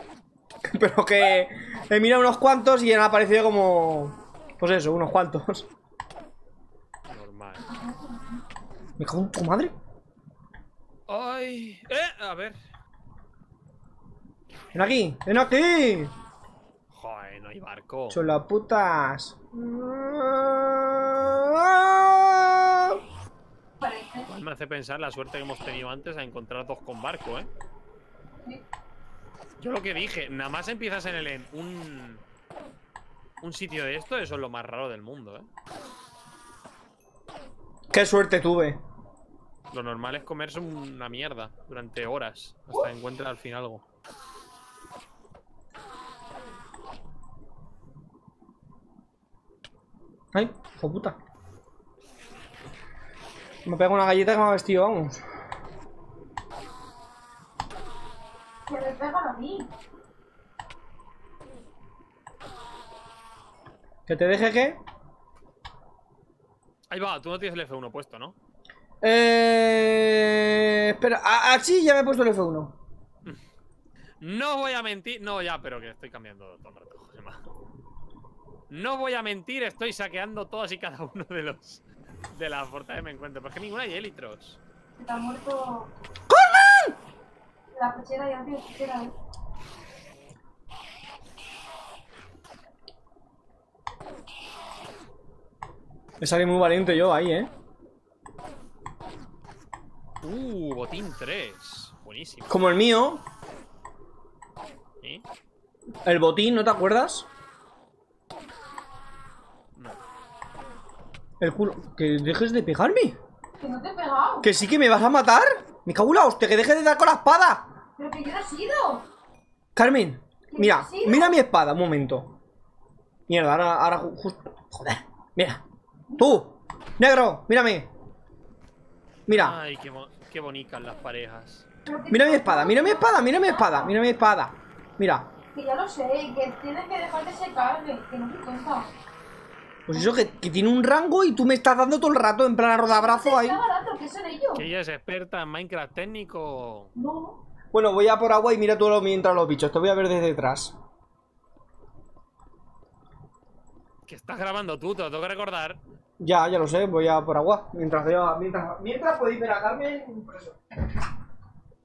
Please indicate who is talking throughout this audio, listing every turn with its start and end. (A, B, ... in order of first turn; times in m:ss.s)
0:00.6-0:05.7 A
0:07.1-0:07.7 B
0:07.6-0:08.4 C
0:09.0-0:09.7 A
0:11.1-0:12.6 B
0:14.7-0:16.1 A
0:16.9-0:18.2 B
0:18.1-0:23.0 A
0:23.8-0:24.3 C
0:24.2-0:27.5 B
0:29.6-0:32.2 B
0:33.4-0:35.5 B
0:37.9-0:38.8 A
0:39.7-0:43.8 B
0:50.3-0:51.2 A
0:53.6-0:55.2 A
0:58.7-0:59.7 C
1:04.1-1:04.8 A
1:06.9-1:08.4 B
1:09.0-1:12.7 A
1:14.2-1:17.4 B
1:18.7-1:24.6 B
1:24.9-1:25.9 C
1:26.3-1:26.9 A
1:27.7-1:29.1 C
1:36.2-1:37.5 A
1:40.2-1:42.7 B
1:42.5-1:43.2 A
1:46.0-1:47.2 A
1:49.7-1:50.0 B
1:51.4-1:53.2 A
1:53.6-1:54.5 C
1:54.4-1:57.7 A
1:58.0-1:59.1 C
1:59.7-2:02.3 A
2:00.5-2:01.4 C
2:03.3-2:05.6 A
2:06.1-2:06.4 C
2:06.2-2:07.9 A
2:09.3-2:09.6 A
2:09.3-2:11.7 B
2:11.8-2:13.9 C
2:12.1-2:15.3 A
2:15.5-2:18.9 C
2:19.8-2:23.6 A
2:22.9-2:24.7 C
2:24.5-2:26.9 B
2:26.9-2:27.4 C
2:27.7-2:30.7 A
2:34.0-2:35.8 B
2:36.2-2:40.6 A